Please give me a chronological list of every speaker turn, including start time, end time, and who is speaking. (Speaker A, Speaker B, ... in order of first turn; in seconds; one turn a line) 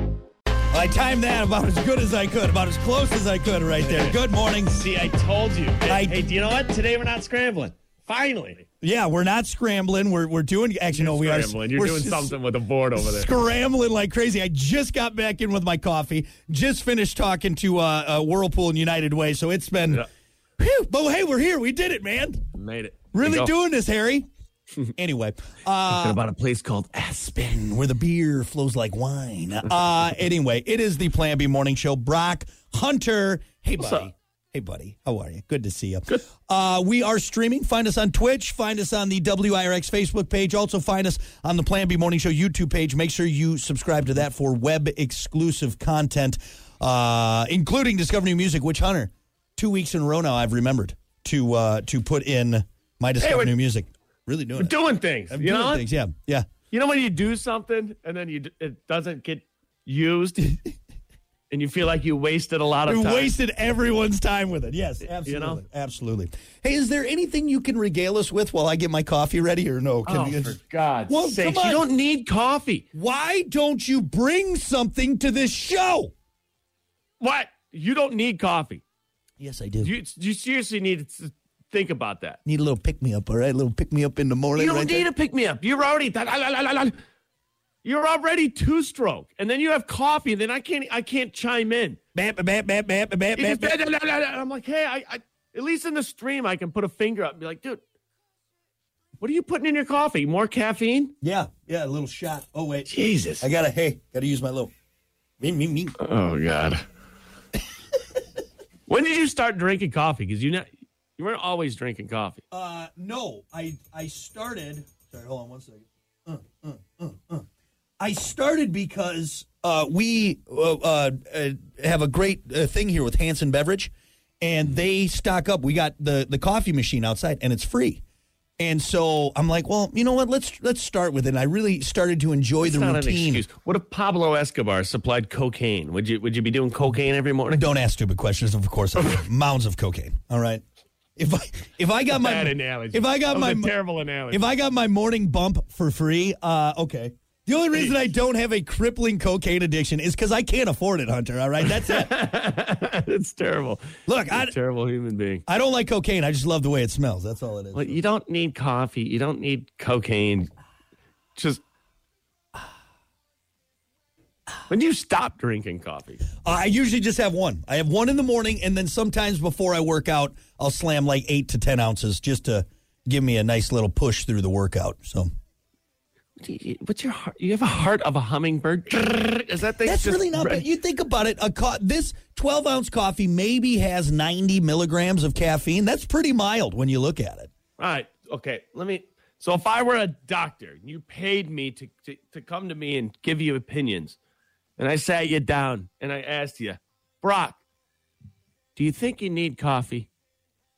Speaker A: 0.7-4.7
Speaker B: 3.8-4.2
Speaker B: 4.7-8.6
Speaker A: 5.8-6.2
Speaker A: 8.8-12.3
Speaker B: 10.9-13.3
Speaker A: 12.9-20.1
Speaker A: 20.6-22.4
Speaker B: 22.5-23.5
Speaker A: 23.1-24.2
Speaker A: 25.0-26.2
Speaker B: 25.8-27.7
Speaker A: 27.4-54.7
Speaker B: 33.8-34.1
Speaker B: 53.2-53.5
Speaker B: 54.5-55.8
Speaker A: 55.3-56.5
Speaker B: 56.7-60.6
Speaker B: 61.5-63.3
Speaker A: 62.9-71.8
Speaker B: 65.0-65.6
Speaker B: 70.0-72.8
Speaker A: 72.9-76.1
Speaker B: 77.2-78.8
Speaker A: 79.4-79.9
Speaker B: 79.8-82.4
Speaker A: 82.5-85.1
Speaker B: 84.5-87.0
Speaker B: 87.8-92.0
Speaker A: 92.1-93.8
Speaker B: 93.3-97.8
Speaker B: 99.2-101.1
Speaker A: 101.2-104.7
Speaker B: 102.9-103.4
Speaker A: 105.4-106.0
Speaker B: 106.0-106.8
Speaker B: 108.9-112.4
Speaker A: 112.5-117.5
Speaker A: 118.0-128.0
Speaker A: 128.6-133.4
Speaker B: 132.6-137.7
Speaker A: 137.5-140.6
Speaker A: 141.2-143.7
Speaker B: 142.1-144.4
Speaker A: 144.3-152.1
Speaker B: 151.6-155.4
Speaker A: 154.1-154.5
Speaker A: 155.5-158.0
Speaker B: 157.7-160.5
Speaker B: 161.3-161.6
Speaker B: 164.7-166.3
Speaker A: 166.4-175.3
Speaker B: 176.4-180.7
Speaker A: 179.8-187.5
Speaker B: 187.8-194.2
Speaker B: 194.8-197.6
Speaker B: 198.8-200.1